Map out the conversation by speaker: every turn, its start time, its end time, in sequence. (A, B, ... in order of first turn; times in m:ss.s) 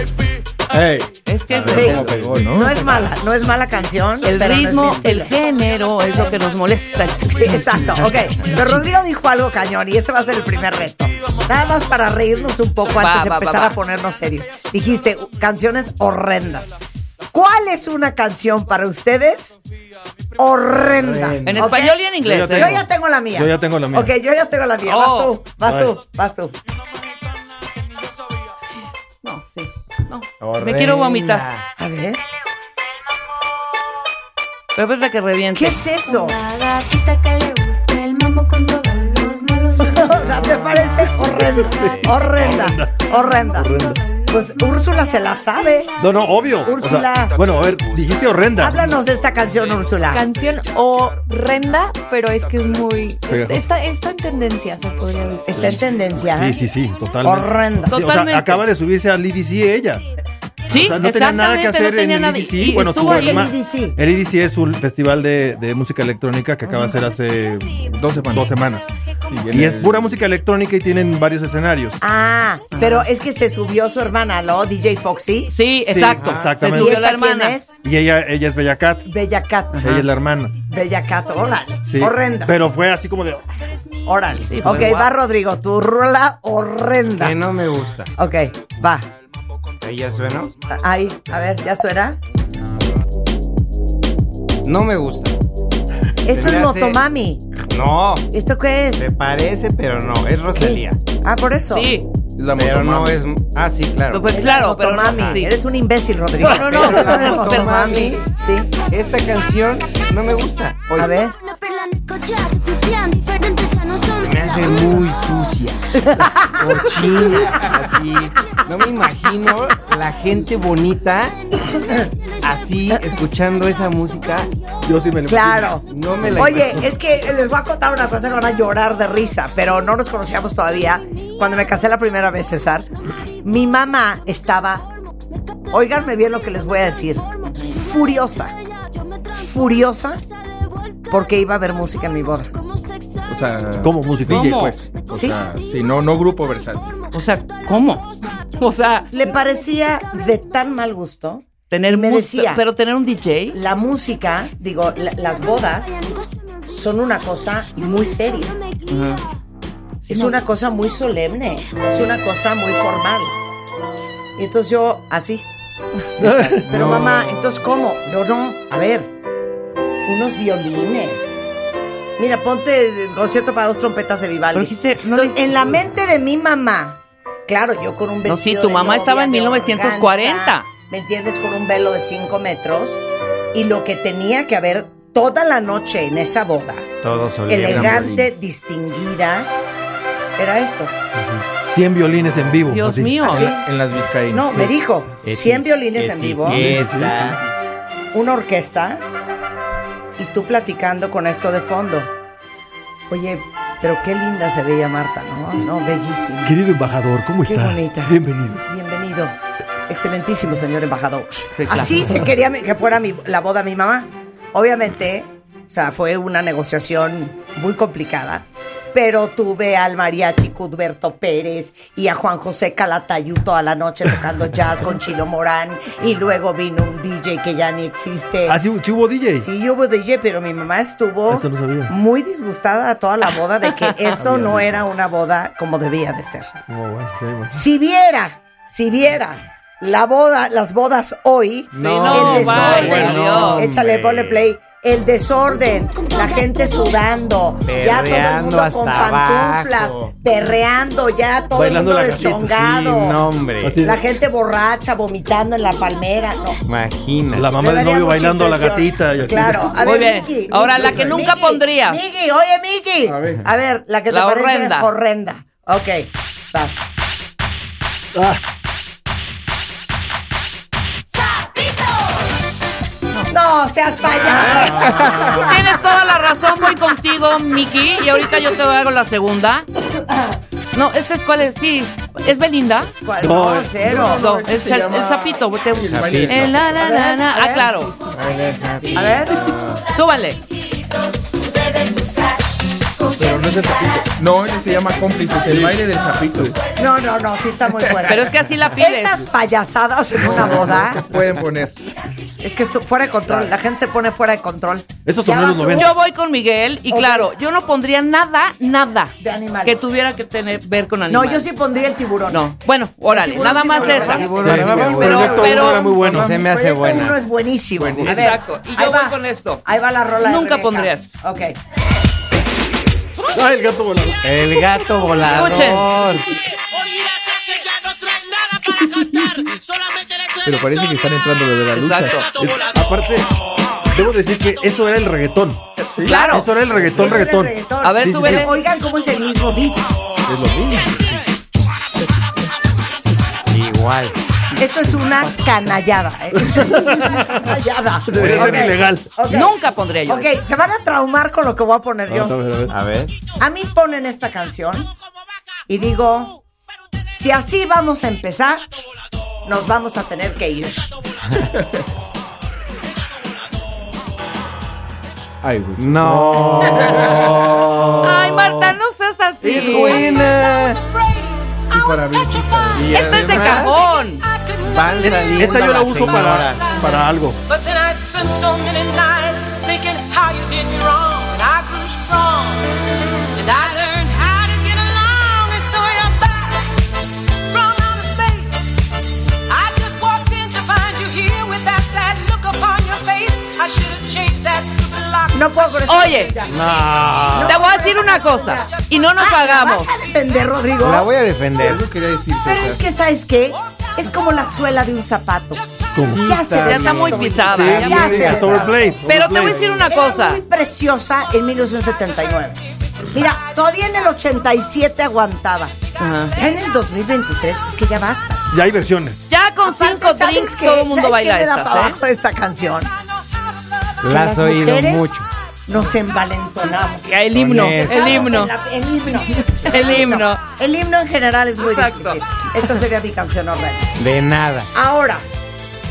0:00.7-0:03.0 A
0:01.3-0:02.1 B
0:01.5-0:03.0 C
0:01.7-0:05.4 D
0:04.2-0:07.7 B
0:07.2-0:16.8 D
0:12.8-0:13.8 B
0:17.3-0:19.6 D
0:20.4-0:26.5 D
0:21.0-0:21.5 A
0:21.5-0:22.8 B
0:22.2-0:24.1 E
0:24.9-0:25.3 B
0:25.7-0:25.9 E
0:29.2-0:31.5 B
0:30.4-0:31.6 A
0:31.8-0:32.2 D
0:34.8-0:35.8 B
0:35.6-0:36.4 D
0:36.0-0:44.9 F
0:39.8-0:43.7 D
0:41.6-0:44.0 E
0:44.3-0:45.9 D
0:46.0-0:49.0 E
0:46.6-0:47.4 D
0:48.6-0:50.3 D
0:50.1-0:55.8 G
0:53.3-0:53.7 E
0:55.5-0:56.6 D
0:55.6-1:00.0 E
0:57.2-0:57.9 D
0:57.9-0:58.7 B
1:00.7-1:03.5 B
1:00.7-1:07.7 E
1:03.0-1:04.0 D
1:07.9-1:08.6 C
1:08.2-1:08.9 E
1:09.3-1:10.1 C
1:09.5-1:12.0 E
1:12.0-1:17.7 D
1:12.7-1:13.0 B
1:15.5-1:17.6 B
1:16.2-1:17.0 E
1:17.8-1:19.0 E
1:19.1-1:20.0 D
1:19.8-1:20.6 E
1:20.6-1:22.6 D
1:21.8-1:23.4 E
1:24.0-1:27.4 D
1:24.4-1:25.1 B
1:27.2-1:28.1 A
1:28.2-1:29.1 D
1:29.8-1:30.5 A
1:30.7-1:32.2 D
1:34.6-1:35.4 A
1:36.2-1:37.4 D
1:36.3-1:37.0 A
1:37.7-1:38.3 A
1:38.3-1:39.1 D
1:39.0-1:41.0 A
1:40.6-1:41.9 D
1:41.7-1:42.1 B
1:42.4-1:43.2 C
1:42.6-1:44.0 A
1:43.9-1:44.2 C
1:44.1-1:45.5 B
1:44.3-1:48.7 D
1:46.4-1:48.1 B
1:46.5-1:48.2 A
1:48.9-1:51.2 A
1:51.0-1:51.4 D
1:54.1-1:55.9 A
1:56.0-1:57.4 D
1:56.4-2:01.4 A
2:01.7-2:02.1 D
2:02.4-2:04.5 A
2:04.8-2:06.8 E
2:05.3-2:12.9 D
2:05.9-2:06.9 A
2:13.4-2:14.9 D
2:15.7-2:18.6 D
2:17.4-2:17.7 B
2:19.3-2:20.2 D
2:21.1-2:22.5 D
2:23.3-2:27.0 C
2:23.8-2:24.5 E
2:24.3-2:24.8 B
2:27.1-2:29.1 B
2:29.1-2:32.6 D
2:31.7-2:33.6 B
2:33.5-2:36.1 D
2:36.7-2:38.6 D
2:38.9-2:39.2 B
2:40.1-2:40.4 B
2:40.1-2:43.4 D
2:44.4-2:45.4 D
2:46.2-2:47.4 E
2:46.5-2:49.1 D
2:50.1-2:51.4 D
2:52.2-3:03.0 D
2:54.5-2:55.5 B
2:58.3-3:00.7 B
3:03.5-3:06.9 D
3:07.0-3:08.1 A
3:07.5-3:09.5 D
3:07.6-3:08.4 C
3:10.4-3:11.0 D
3:11.5-3:13.4 E
3:12.7-3:13.5 B
3:13.2-3:13.6 D
3:13.5-3:14.7 C
3:14.3-3:16.7 D
3:15.2-3:17.4 A
3:16.4-3:17.4 E
3:18.1-3:19.0 D
3:20.2-3:22.1 D
3:23.1-3:26.6 D
3:26.4-3:28.6 E
3:27.4-3:29.4 D
3:29.9-3:48.6 D
3:31.6-3:32.1 B
3:48.5-3:49.5 E
3:49.4-3:56.6 D
3:51.3-3:51.9 E
3:53.6-3:54.2 B
3:54.3-3:54.6 E
3:56.7-3:57.6 E
3:57.5-4:13.2 D
4:01.8-4:04.4 A
4:01.8-4:03.7 B
4:07.7-4:10.1 A
4:11.5-4:12.6 E
4:12.5-4:13.8 A
4:13.6-4:14.0 E
4:13.8-4:16.6 D
4:16.7-4:17.5 A
4:17.3-4:19.7 E
4:17.5-4:26.8 D
4:19.8-4:22.0 B
4:23.0-4:23.4 C
4:24.1-4:24.9 B
4:28.2-4:28.4 E
4:33.3-4:35.6 D
4:34.5-4:35.5 E
4:35.2-4:39.7 B
4:40.7-4:42.9 B
4:43.0-4:44.2 D
4:43.2-4:43.7 E
4:43.8-4:46.7 C
4:43.9-4:47.9 B
4:45.9-4:46.6 A
4:46.8-4:47.9 D
4:48.1-4:49.6 A
4:49.0-4:49.4 D
4:49.9-4:50.4 B
4:53.2-4:56.6 C
4:56.8-5:01.0 D
4:58.1-4:59.2 B
5:00.2-5:01.7 C
5:02.4-5:05.9 D
5:05.1-5:05.9 E
5:05.7-5:11.5 B
5:06.9-5:07.3 D
5:09.2-5:09.8 D
5:11.1-5:12.4 D
5:12.3-5:15.9 B
5:13.1-5:21.6 D
5:13.8-5:17.2 A
5:14.4-5:16.4 E
5:17.8-5:18.3 C
5:18.0-5:19.6 B
5:20.2-5:21.1 B
5:23.4-5:24.6 E
5:24.2-5:26.3 A
5:25.3-5:25.9 B
5:30.4-5:32.2 C
5:31.7-5:32.3 B
5:32.4-5:33.3 E
5:33.9-5:38.5 E
5:35.8-5:36.5 B
5:36.8-5:40.0 D
5:37.8-5:38.5 B
5:40.3-5:41.0 C
5:43.5-5:44.2 A
5:44.6-5:52.4 D
5:46.5-5:47.4 E
5:48.1-5:49.1 E
5:49.3-5:50.3 B
5:52.1-5:52.7 E
5:52.7-5:53.2 A
5:53.4-5:54.9 D
5:55.7-5:56.4 D
5:57.1-5:58.9 D
5:59.4-6:01.0 D
6:05.4-6:07.6 C
6:05.8-6:08.7 A
6:08.0-6:10.1 B
6:09.4-6:10.8 A
6:11.0-6:11.8 H
6:11.7-6:13.1 C
6:12.7-6:13.8 A
6:12.9-6:14.2 B
6:14.4-6:14.6 H
6:14.7-6:16.8 A
6:15.3-6:17.4 E
6:17.5-6:22.3 H
6:23.4-6:26.5 H
6:27.5-6:28.5 H
6:29.6-6:35.3 H
6:35.3-6:41.1 D
6:35.8-6:36.4 B
6:36.5-6:37.6 A
6:37.4-6:39.9 B
6:40.8-6:41.9 A
6:41.6-6:42.8 C
6:42.4-6:49.0 D
6:46.0-6:46.3 E
6:46.1-6:48.7 A
6:46.6-6:50.4 B
6:47.5-6:49.8 E
6:49.9-6:52.6 D
6:53.1-6:55.8 D
6:56.0-6:56.4 B
6:56.3-6:58.5 D
6:58.5-6:59.3 E
6:59.3-7:02.0 B
6:59.6-7:02.9 D
7:04.0-7:05.3 A
7:04.1-7:13.9 D
7:07.1-7:08.5 B
7:07.3-7:08.4 A
7:09.6-7:10.4 B
7:11.6-7:12.2 B
7:14.0-7:14.7 A
7:14.7-7:15.3 D